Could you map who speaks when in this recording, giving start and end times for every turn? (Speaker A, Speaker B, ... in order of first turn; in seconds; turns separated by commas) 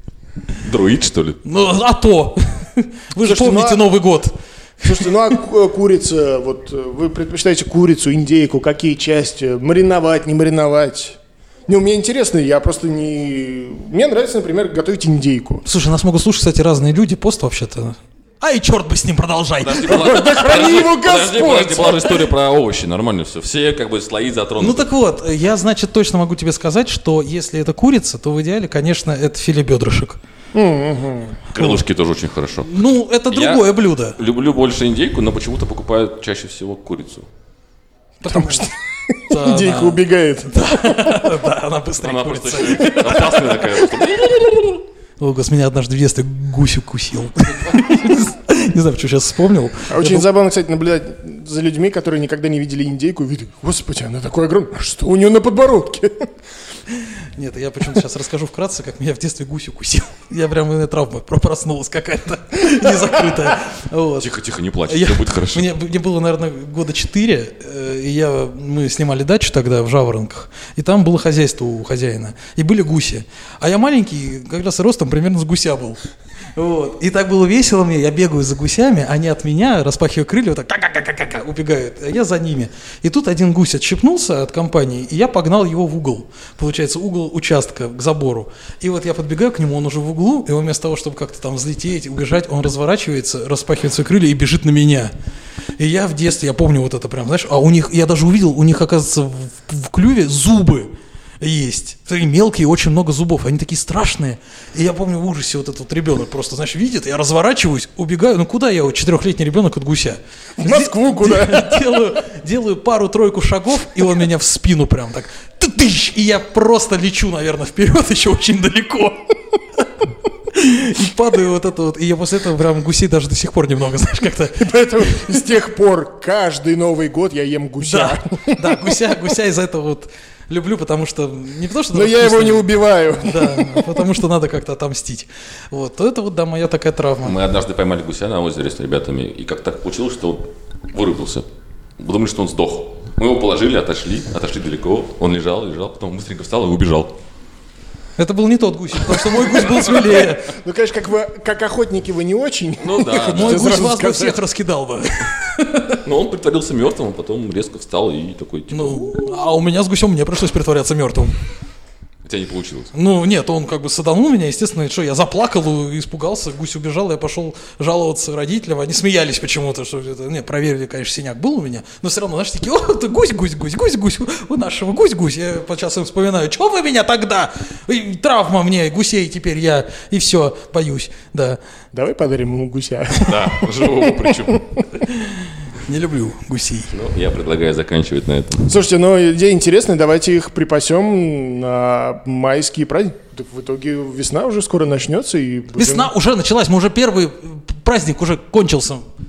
Speaker A: 0.6-1.4, Speaker B: 1.4-5.1, Speaker C: 3.2-3.9, Speaker C: 4.8-15.6, Speaker B: 15.7-20.8, Speaker A: 19.6-24.9, Speaker C: 19.9-22.2, Speaker B: 24.6-30.2, Speaker C: 30.5-31.4, Speaker A: 31.5-37.3, Speaker B: 31.6-31.8, Speaker B: 32.6-34.2, Speaker B: 38.2-38.7, Speaker C: 38.3-41.3, Speaker B: 39.3-43.9, Speaker A: 42.0-44.8, Speaker B: 45.2-50.2, Speaker A: 47.5-48.1, Speaker C: 49.9-56.3, Speaker B: 57.4-64.3, Speaker A: 64.2-65.7, Speaker B: 64.9-76.0, Speaker B: 76.6-95.1, Speaker B: 95.8-119.8, Speaker C: 110.6-112.0, Speaker B: 120.5-124.7, Speaker C: 124.6-128.8, Speaker B: 127.8-137.4, Speaker C: 131.9-134.1, Speaker A: 137.2-141.4, Speaker A: 142.0-147.2, Speaker B: 148.2-150.5, Speaker C: 149.3-154.4, Speaker A: 152.8-153.9, Speaker B: 153.3-156.0, Speaker A: 156.0-159.2, Speaker B: 158.7-161.3, Speaker A: 162.2-162.9, Speaker B: 162.9-181.6, Speaker C: 181.9-184.8, Speaker A: 183.2-184.8, Speaker B: 185.0-186.9, Speaker A: 186.9-188.7, Speaker C: 188.7-196.1, Speaker B: 195.8-199.1